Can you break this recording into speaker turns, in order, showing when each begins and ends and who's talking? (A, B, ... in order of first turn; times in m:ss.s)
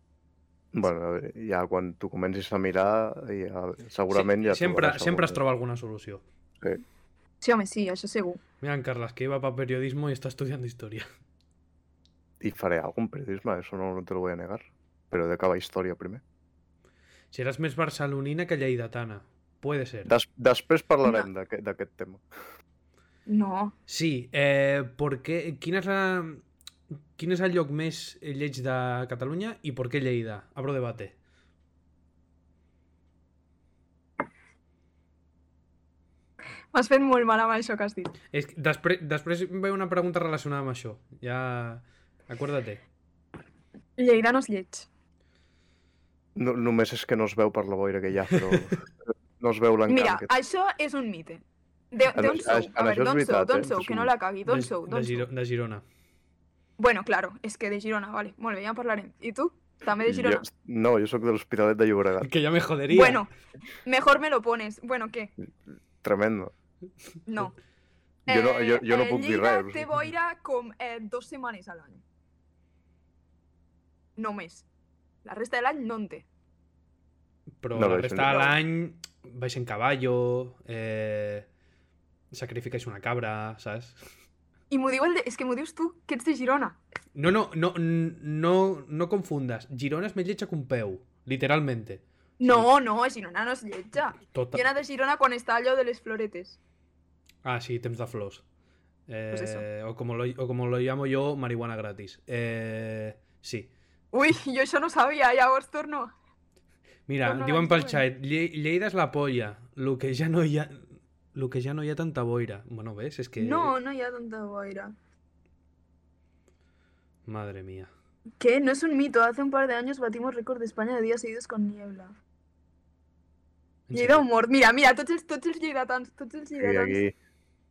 0:00.7-0:05.4 A
0:04.1-0:06.2 B
0:07.4-0:08.4 C
0:08.6-0:11.1 B
0:12.4-0:16.2 A
0:17.3-0:20.1 B
0:20.0-0:22.2 A
0:23.2-0:23.7 C
0:23.9-0:26.4 B
0:27.2-0:31.1 B
0:36.7-0:38.1 C
0:38.3-0:42.8 B
0:44.0-0:44.9 C
0:46.4-0:48.9 A
0:49.4-0:50.3 A
0:49.9-0:55.2 C
0:52.1-0:54.1 A
0:54.4-0:55.8 B
0:56.8-1:00.4 C
1:00.0-1:02.3 A
1:02.2-1:03.3 B
1:02.9-1:03.3 C
1:03.8-1:05.3 C
1:06.0-1:06.5 A
1:07.3-1:07.5 C
1:08.3-1:12.0 C
1:08.3-1:09.9 A
1:14.2-1:14.6 C
1:15.2-1:16.2 C
1:17.6-1:21.5 B
1:17.7-1:18.5 A
1:22.3-1:24.0 B
1:24.7-1:26.8 C
1:27.1-1:32.7 B
1:32.4-1:36.6 C
1:34.3-1:34.6 B
1:37.4-1:38.4 B
1:39.1-1:43.7 B
1:39.3-1:39.6 C
1:44.1-1:46.1 C
1:47.1-1:53.7 B
1:47.2-1:48.0 C
1:53.4-1:54.9 C
1:57.2-1:57.9 B
1:58.4-2:02.2 C
2:03.9-2:04.2 B
2:03.9-2:07.0 C
2:06.6-2:07.1 A